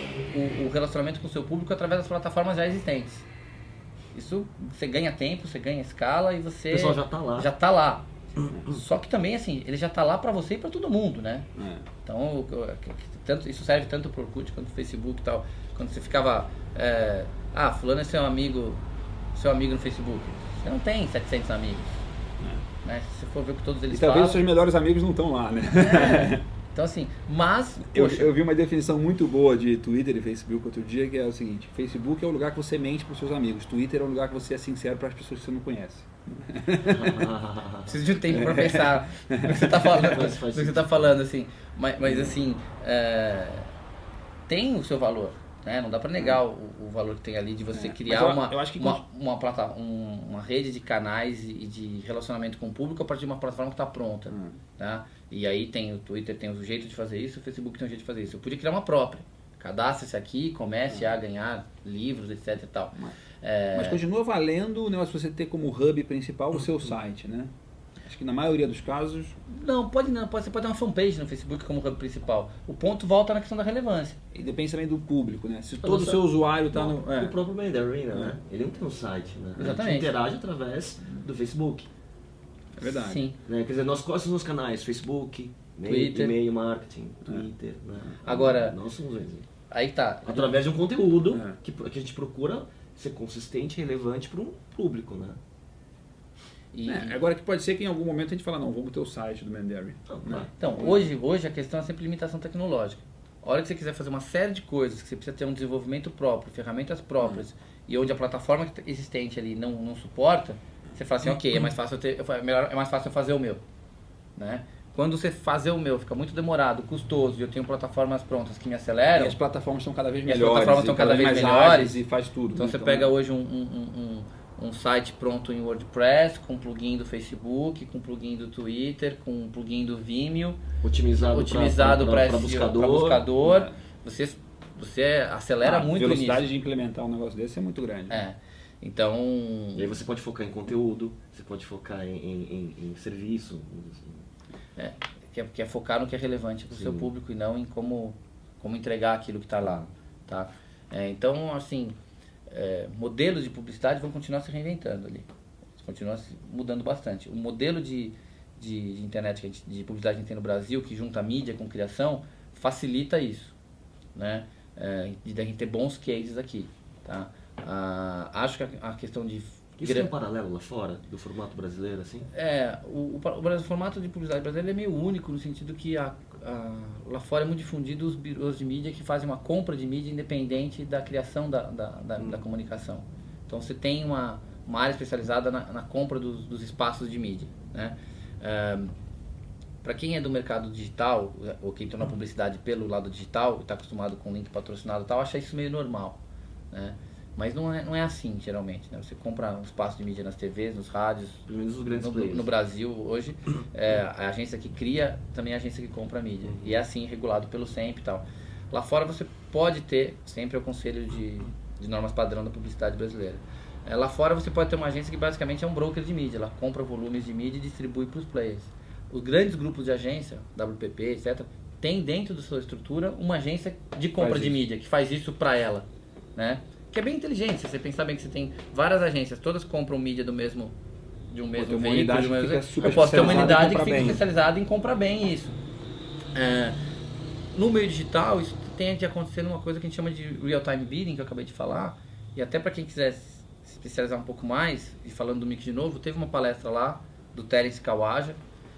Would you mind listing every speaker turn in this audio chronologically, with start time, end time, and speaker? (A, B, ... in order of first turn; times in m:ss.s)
0:00.3-0:03.3 A
0:04.1-0:11.5 A
0:06.7-0:07.5 B
0:11.6-0:11.9 C
0:12.0-0:18.8 A
0:19.3-0:22.0 A
0:22.8-0:24.4 A
0:23.9-0:26.4 C
0:25.8-0:28.3 A
0:27.9-0:37.3 C
0:36.8-0:38.0 B
0:37.9-0:43.7 A
0:38.3-0:40.1 C
0:40.1-0:41.2 B
0:42.0-0:42.3 C
0:44.5-1:04.0 A
0:47.7-0:49.0 C
0:54.3-0:54.6 C
1:03.7-1:09.4 C
1:09.5-1:14.2 A
1:14.3-1:17.4 C
1:15.8-1:21.9 B
1:19.6-1:20.1 A
1:22.8-1:23.2 C
1:22.8-1:23.4 A
1:23.4-1:29.5 B
1:25.8-1:26.3 A
1:28.2-1:28.8 A
1:29.7-1:30.6 A
1:30.3-1:35.4 B
1:31.3-1:31.6 C
1:36.7-1:37.2 A
1:36.9-1:41.0 C
1:40.1-1:40.5 B
1:40.6-1:53.6 A
1:54.4-1:59.4 A
1:59.2-2:03.1 C
2:00.3-2:02.0 A
2:02.6-2:10.6 A
2:10.8-2:13.3 B
2:11.2-2:16.4 A
2:13.4-2:13.7 C
2:15.6-2:18.2 C
2:18.1-2:19.9 A
2:19.8-2:24.2 B
2:24.8-2:32.0 A
2:26.7-2:27.1 B
2:29.6-2:29.9 B
2:32.5-2:43.5 A
2:44.2-2:50.1 A
2:49.8-2:52.3 B
2:52.3-3:09.0 A
3:02.2-3:02.4 B
3:09.8-3:16.2 A
3:16.7-3:50.8 A
3:21.5-3:22.5 B
3:26.5-3:26.8 B
3:44.2-3:44.6 C
3:51.3-3:55.6 A
3:51.6-3:54.2 C
3:56.4-3:56.8 A
3:57.5-4:08.4 A